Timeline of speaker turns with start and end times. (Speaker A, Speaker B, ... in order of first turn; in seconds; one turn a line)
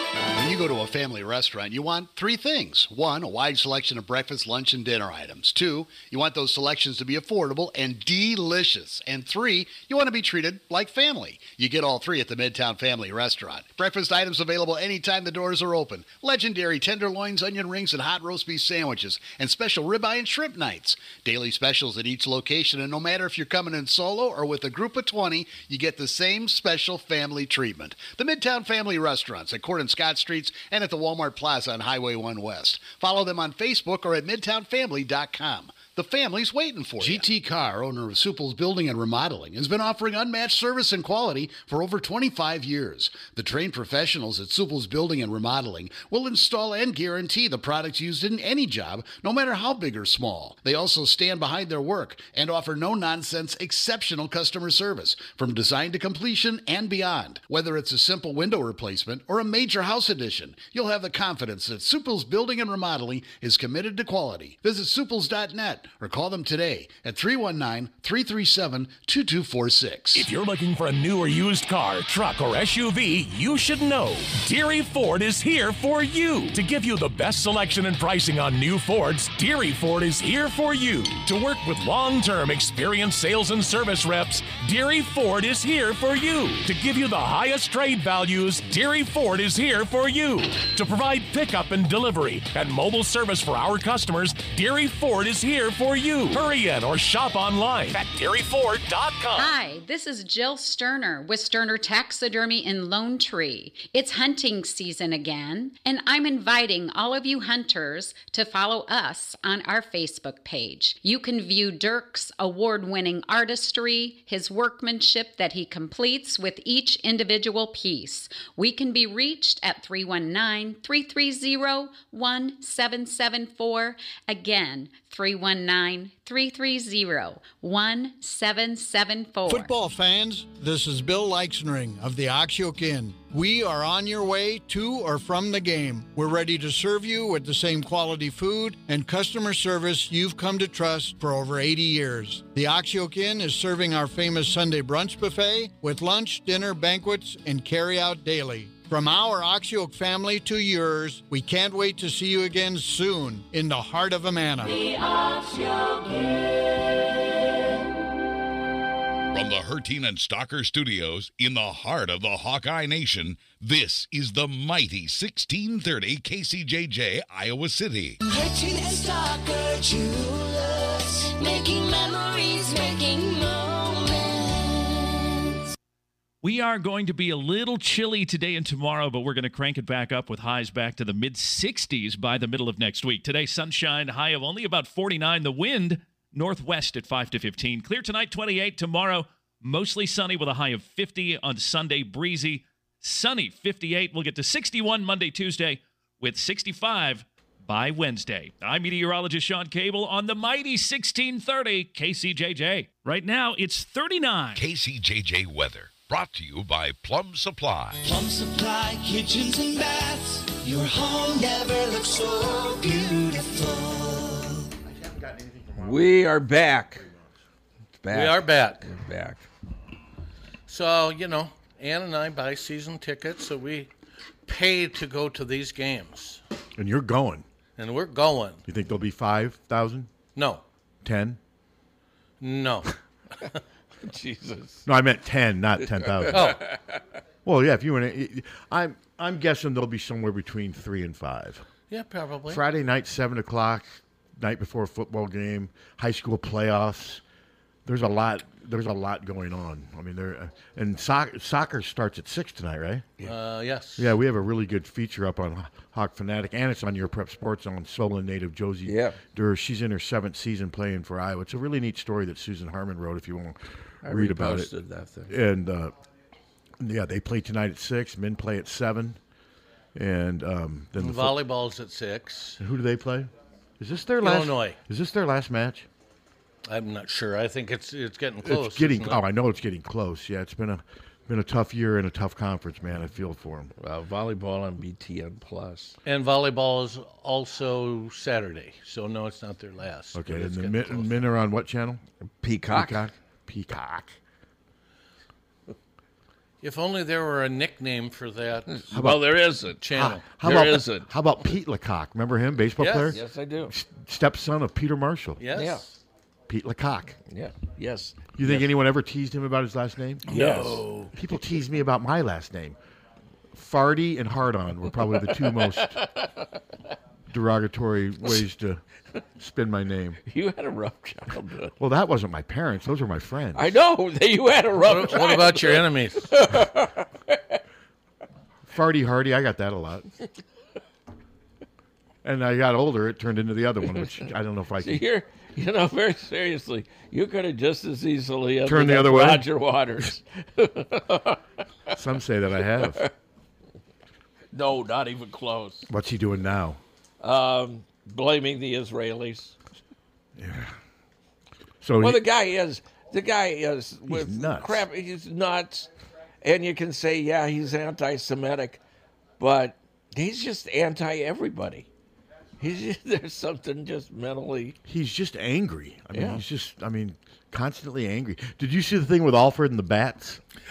Speaker A: 0.3-70.3
Speaker B: 70.1-99.5
Speaker C: 99.3-129.7
Speaker D: 129.4-154.8
Speaker E: 155.5-155.9
Speaker F: 159.3-168.2
Speaker E: 168.2-175.7
Speaker G: 176.4-204.6
Speaker F: 204.5-208.0
Speaker E: 208.0-214.7
Speaker H: 214.8-216.2
Speaker I: 215.8-217.0
Speaker H: 216.9-217.3
Speaker I: 218.0-219.4
Speaker J: 218.1-218.8
Speaker J: 220.7-223.9
Speaker J: 224.5-226.4
Speaker H: 226.8-227.4
Speaker J: 227.8-228.6
Speaker H: 228.7-230.1
Speaker J: 230.3-230.6
Speaker H: 231.0-231.4
Speaker J: 232.4-232.9
Speaker I: 234.0-234.8
Speaker H: 234.8-236.5
Speaker I: 236.0-237.0
Speaker J: 236.3-236.6
Speaker H: 237.4-241.6
Speaker J: 241.9-242.6
Speaker H: 242.5-247.2
Speaker H: 247.8-253.1
Speaker J: 253.2-254.1
Speaker H: 254.0-264.7
Speaker I: 258.9-259.2
Speaker I: 264.0-265.4
Speaker H: 265.3-265.9
Speaker H: 266.8-269.2
Speaker H: 269.9-271.4
Speaker J: 271.0-272.6
Speaker H: 272.6-275.9
Speaker J: 274.2-274.8
Speaker J: 276.6-279.2
Speaker H: 278.4-283.7
Speaker I: 283.8-285.9
Speaker J: 286.1-291.1
Speaker H: 290.1-292.0
Speaker I: 292.4-293.1
Speaker H: 292.7-294.2
Speaker J: 296.6-298.7
Speaker I: 298.7-299.8
Speaker H: 298.9-299.3
Speaker J: 299.8-300.3
Speaker H: 299.9-305.4
Speaker I: 300.4-301.1
Speaker J: 302.8-303.2
Speaker I: 303.0-303.7
Speaker J: 305.4-305.9
Speaker I: 305.5-305.9
Speaker H: 306.5-307.2
Speaker I: 307.2-308.7
Speaker H: 308.3-312.8
Speaker I: 310.3-311.1
Speaker H: 313.5-316.0
Speaker I: 315.2-316.5
Speaker H: 317.3-318.8
Speaker H: 319.4-320.2
Speaker I: 320.2-321.7
Speaker H: 321.8-323.7
Speaker I: 323.5-327.6
Speaker J: 324.8-326.3
Speaker H: 328.7-330.1
Speaker H: 332.2-335.0
Speaker I: 334.8-341.4
Speaker H: 338.6-339.4
Speaker H: 341.9-343.0
Speaker I: 342.8-343.1
Speaker I: 344.5-345.9
Speaker H: 345.9-346.8
Speaker I: 347.2-349.6
Speaker H: 350.4-350.7
Speaker H: 351.8-352.2
Speaker I: 352.0-355.9
Speaker H: 354.1-354.9
Speaker I: 356.4-358.8
Speaker I: 359.4-361.9
Speaker I: 362.6-364.8
Speaker H: 364.8-370.4
Speaker I: 366.1-366.4